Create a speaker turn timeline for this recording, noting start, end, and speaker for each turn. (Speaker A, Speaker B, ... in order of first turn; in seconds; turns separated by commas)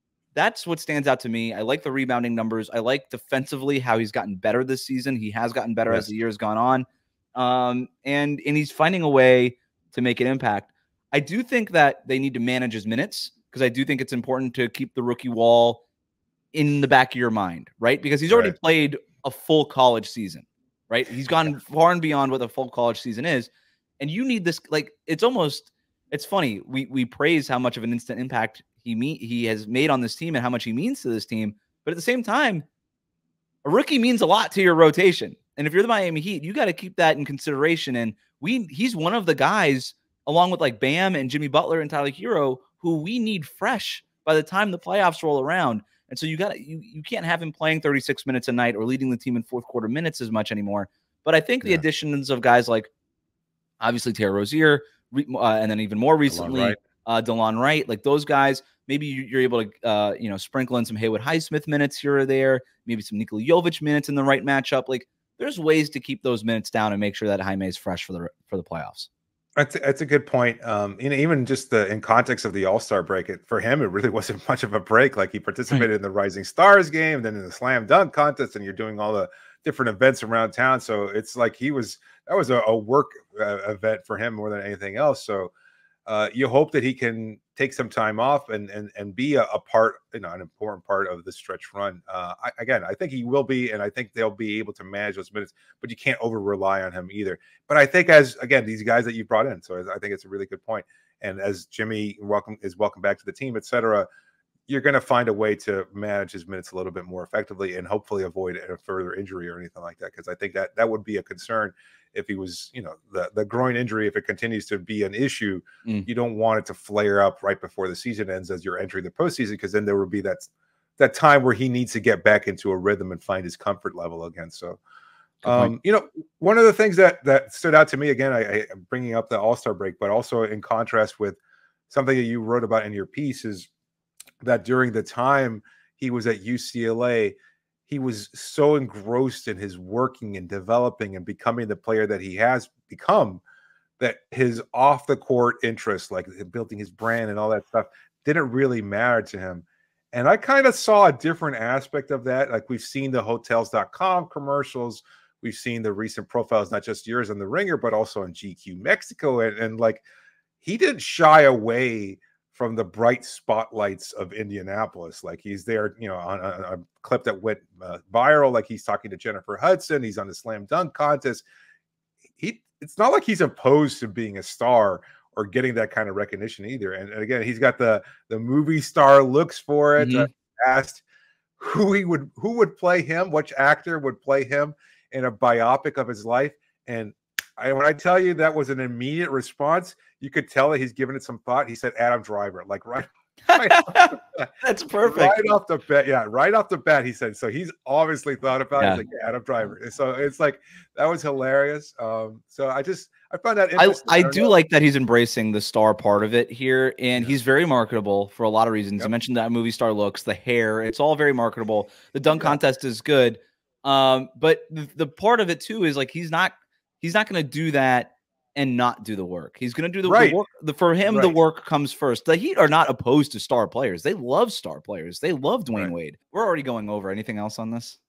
Speaker A: 0.3-15.8, Speaker A: 16.5-32.6, Speaker B: 18.3-18.6, Speaker A: 33.6-52.9, Speaker A: 53.8-69.1, Speaker B: 56.3-56.8, Speaker B: 69.5-85.5, Speaker B: 86.1-104.1, Speaker B: 104.7-124.8, Speaker B: 125.4-131.4, Speaker A: 125.4-125.7, Speaker B: 131.9-133.7, Speaker B: 134.4-137.3, Speaker B: 137.9-143.4, Speaker B: 144.0-160.0, Speaker B: 160.6-171.4, Speaker B: 172.4-181.0, Speaker A: 180.0-180.3, Speaker B: 181.6-194.5, Speaker A: 193.4-195.5, Speaker B: 195.0-204.6, Speaker A: 203.8-228.0, Speaker B: 212.3-212.6, Speaker B: 220.0-220.4, Speaker B: 221.1-221.3